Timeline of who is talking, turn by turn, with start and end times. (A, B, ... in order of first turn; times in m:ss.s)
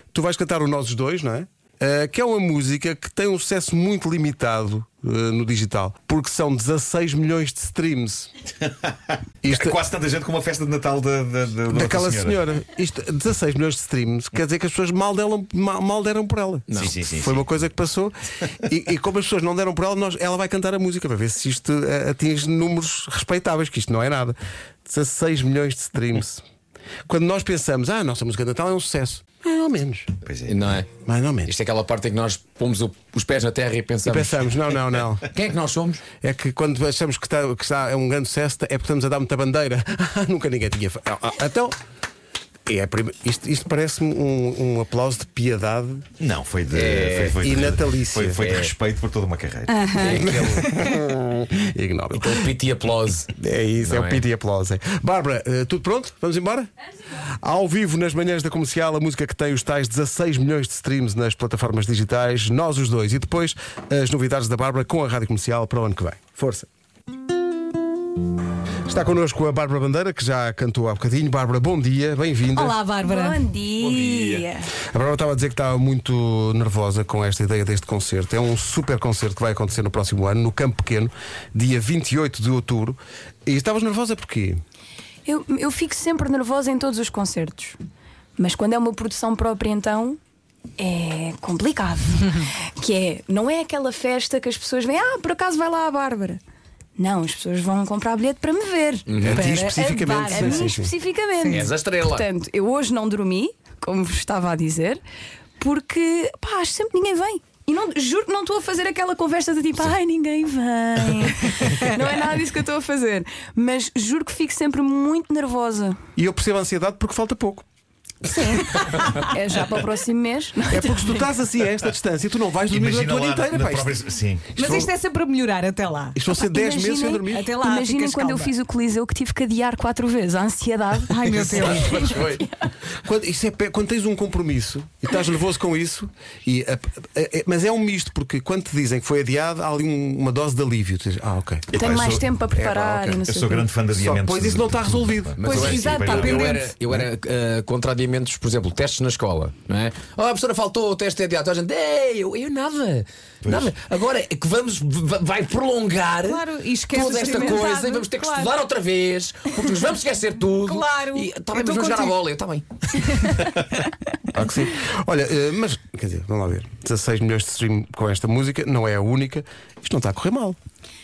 0:00.1-0:08.3 A
0:09.4-0:09.8 A
0:09.5-0:12.4 B
0:11.7-0:26.4 A
0:16.8-0:17.5 B
0:27.1-0:30.1 A
0:30.2-0:30.6 B
0:30.5-0:30.9 C
0:31.0-0:31.5 A
0:31.4-0:34.4 C
0:34.0-0:35.3 A
0:35.3-0:36.0 C
0:36.2-0:41.8 A
0:42.7-0:46.1 A
0:46.2-0:50.2 B
0:46.7-0:47.4 C
0:47.2-0:48.4 A
0:48.4-0:48.7 C
0:49.8-0:50.0 D
0:49.8-0:50.2 E
0:50.0-0:50.8 C
0:50.0-0:52.5 A
0:52.1-0:54.2 C
0:53.4-0:56.7 A
0:57.4-1:06.7 A
1:08.9-1:12.8 A
1:12.5-1:13.4 D
1:13.0-1:14.7 E
1:13.9-1:14.3 C
1:14.9-1:24.6 A
1:25.3-1:27.8 E
1:28.4-1:30.2 E
1:30.8-1:36.4 E
1:37.0-1:45.0 E
1:39.1-1:39.5 C
1:39.2-1:40.9 A
1:39.8-1:40.6 D
1:41.5-1:42.3 C
1:45.6-1:56.0 E
1:56.2-1:57.6 A
1:58.2-2:01.3 E
2:00.7-2:04.0 A
2:02.7-2:04.8 B
2:04.6-2:06.2 D
2:04.6-2:04.9 A
2:06.2-2:07.5 A
2:06.3-2:12.7 E
2:07.3-2:08.5 D
2:11.1-2:12.2 D
2:11.3-2:12.4 C
2:11.6-2:12.1 A
2:13.0-2:21.8 A
2:21.7-2:23.7 E
2:21.7-2:22.3 B
2:22.5-2:23.2 A
2:23.2-2:26.6 B
2:23.9-2:25.4 A
2:25.4-2:43.0 C
2:25.4-2:26.7 D
2:33.4-2:33.7 B
2:36.2-2:38.6 D
2:40.6-2:42.2 D
2:43.0-2:43.3 D
2:43.2-2:43.5 E
2:44.3-2:50.6 A